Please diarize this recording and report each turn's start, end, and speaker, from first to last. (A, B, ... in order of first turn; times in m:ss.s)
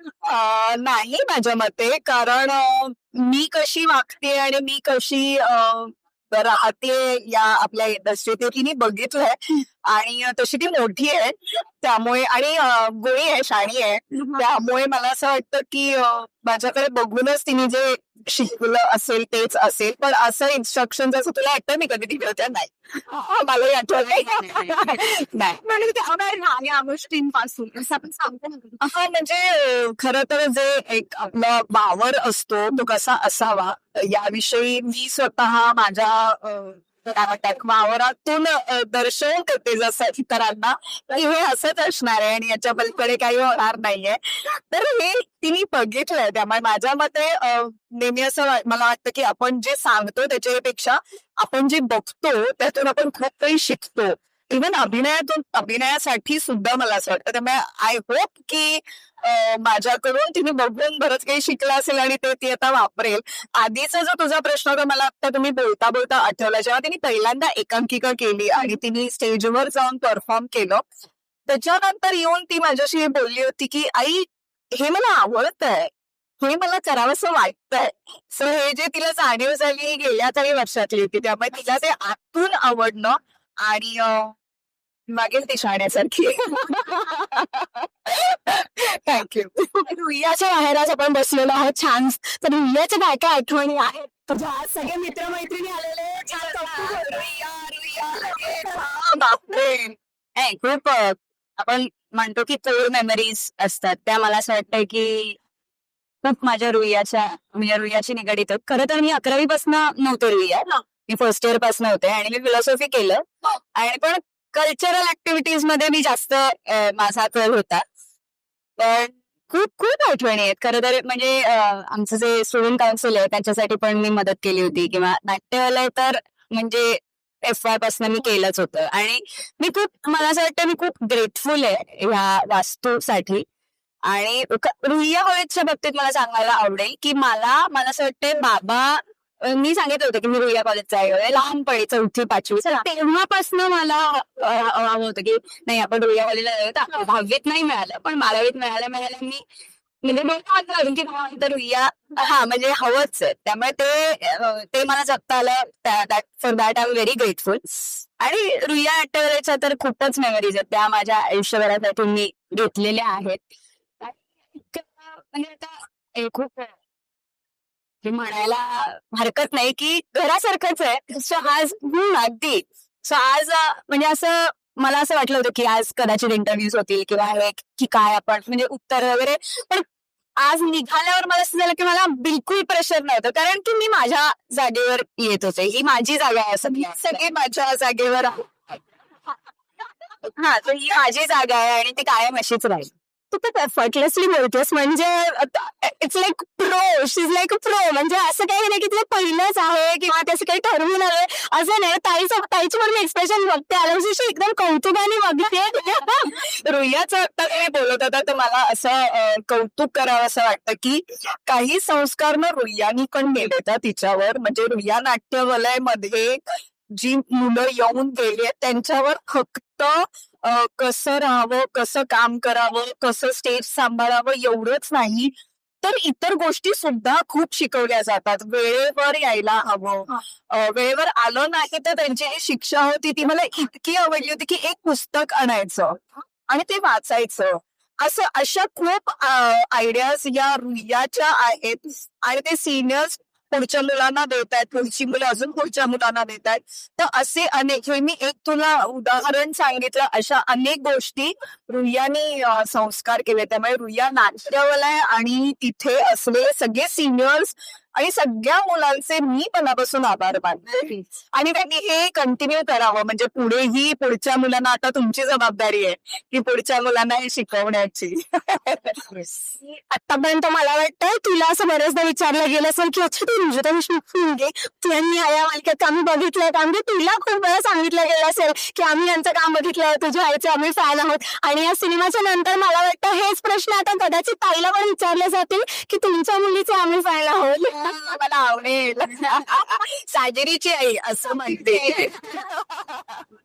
0:00.2-0:25.8 A
0:24.1-0:24.9 B
0:25.8-0:28.8 B
0:28.8-1:10.8 A
1:11.5-1:24.4 A
1:25.1-1:29.8 A
1:29.9-1:36.4 C
1:35.5-1:40.0 A
1:40.4-1:45.4 B
1:46.2-1:57.8 B
1:58.8-2:13.4 B
2:14.0-2:29.4 B
2:30.0-2:43.4 B
2:44.0-2:46.7 B
2:48.0-2:59.8 B
3:00.4-3:07.2 B
3:06.7-3:08.8 A
3:10.4-3:12.9 B
3:13.3-3:26.3 C
3:26.1-3:36.4 A
3:36.9-4:29.3 A
4:29.6-4:48.0 C
4:48.1-4:53.2 A
4:51.2-4:51.9 B